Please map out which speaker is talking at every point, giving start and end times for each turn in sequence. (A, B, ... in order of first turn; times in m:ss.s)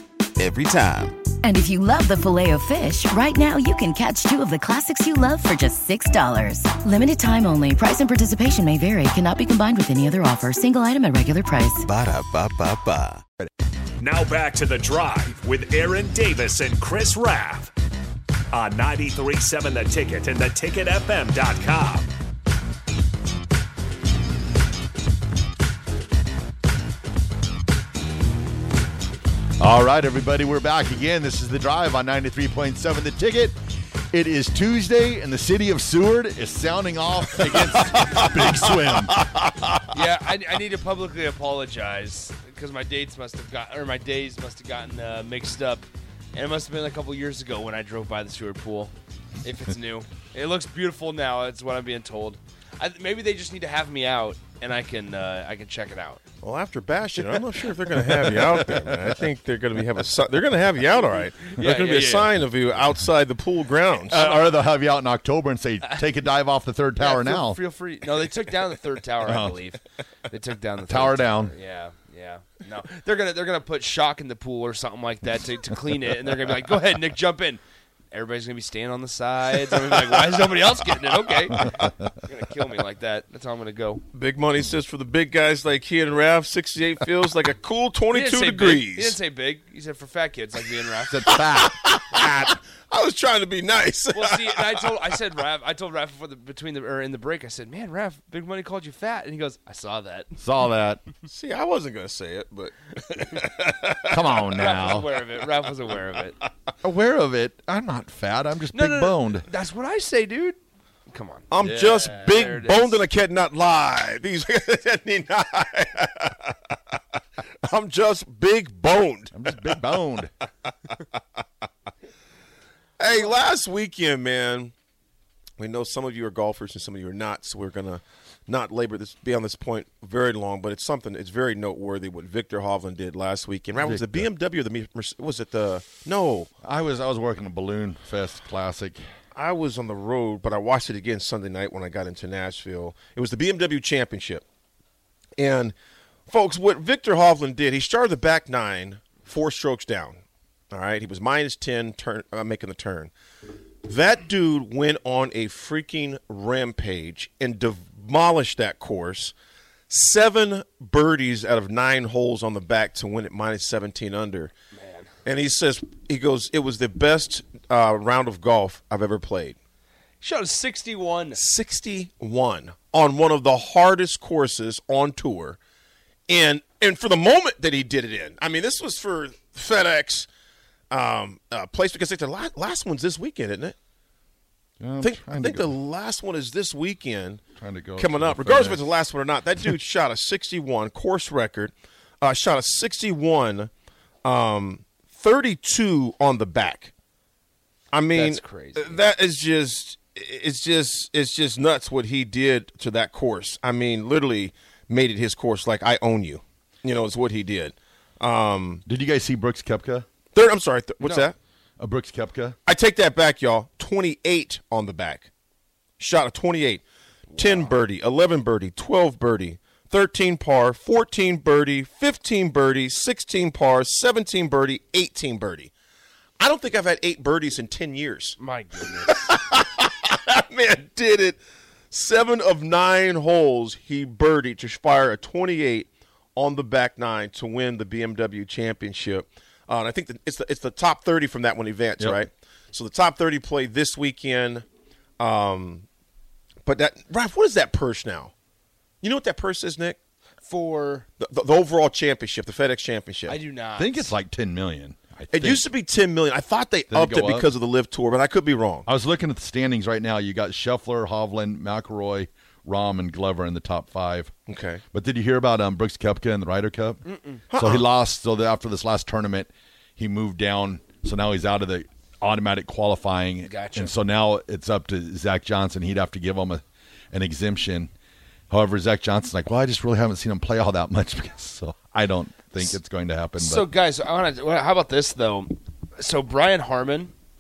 0:00.4-0:01.3 A
0:01.4-0:11.8 B
0:11.8-0:13.2 A
0:14.0-0:17.7 C
0:18.5-0:22.1 C
0:29.6-0:33.6 D
0:34.1-0:39.2 D
0:39.9-0:56.2 E
0:56.4-1:04.3 F
1:01.6-1:02.3 E
1:04.1-1:07.6 D
1:04.1-1:04.6 E
1:07.0-1:24.0 E
1:09.2-1:09.6 D
1:10.9-1:11.5 D
1:21.5-1:21.9 D
1:24.1-1:29.2 F
1:28.1-1:31.3 E
1:30.8-1:35.2 F
1:31.1-1:31.8 D
1:34.1-1:40.3 E
1:40.4-1:41.0 D
1:41.3-1:44.8 F
1:44.1-1:45.1 D
1:44.6-1:46.4 E
1:46.8-1:49.5 D
1:48.7-1:53.0 E
1:51.5-1:57.0 F
1:57.6-1:59.8 F
1:59.3-2:00.3 D
2:03.0-2:04.7 F
2:05.6-2:16.5 F
2:13.8-2:14.3 D
2:16.6-2:19.0 D
2:19.3-2:24.4 F
2:25.4-2:25.8 F
2:26.3-2:30.2 F
2:30.7-2:33.1 F
2:33.8-2:39.3 F
2:39.9-2:44.5 F
2:44.7-2:45.1 E
2:45.2-2:49.6 F
2:50.2-2:51.4 E
2:51.4-2:55.6 F
2:56.3-3:00.3 F
3:00.9-3:03.8 F
3:04.8-3:05.7 D
3:05.0-3:13.7 F
3:07.6-3:08.9 D
3:14.2-3:16.9 F
3:17.9-3:28.8 F
3:18.1-3:19.0 E
3:28.9-3:30.0 D
3:30.3-3:31.4 F
3:31.0-3:31.3 E
3:31.8-3:32.6 D
3:32.6-3:35.3 F
3:36.0-3:36.8 F
3:37.3-3:37.8 E
3:37.4-3:45.7 F
3:46.4-3:48.4 F
3:48.4-3:49.3 E
3:49.1-3:51.4 F
3:51.9-4:04.7 F
4:05.2-4:05.9 F
4:06.6-4:08.3 F
4:09.0-4:10.0 F
4:10.4-4:11.1 E
4:11.2-4:13.4 F
4:13.3-4:14.1 E
4:13.8-4:15.6 D
4:15.3-4:18.9 F
4:16.9-4:17.5 D
4:18.9-4:24.3 D
4:24.5-4:24.8 F
4:24.9-4:37.9 D
4:27.0-4:27.4 E
4:27.5-4:27.9 F
4:33.5-4:33.9 E
4:38.5-4:43.7 D
4:43.4-4:47.1 E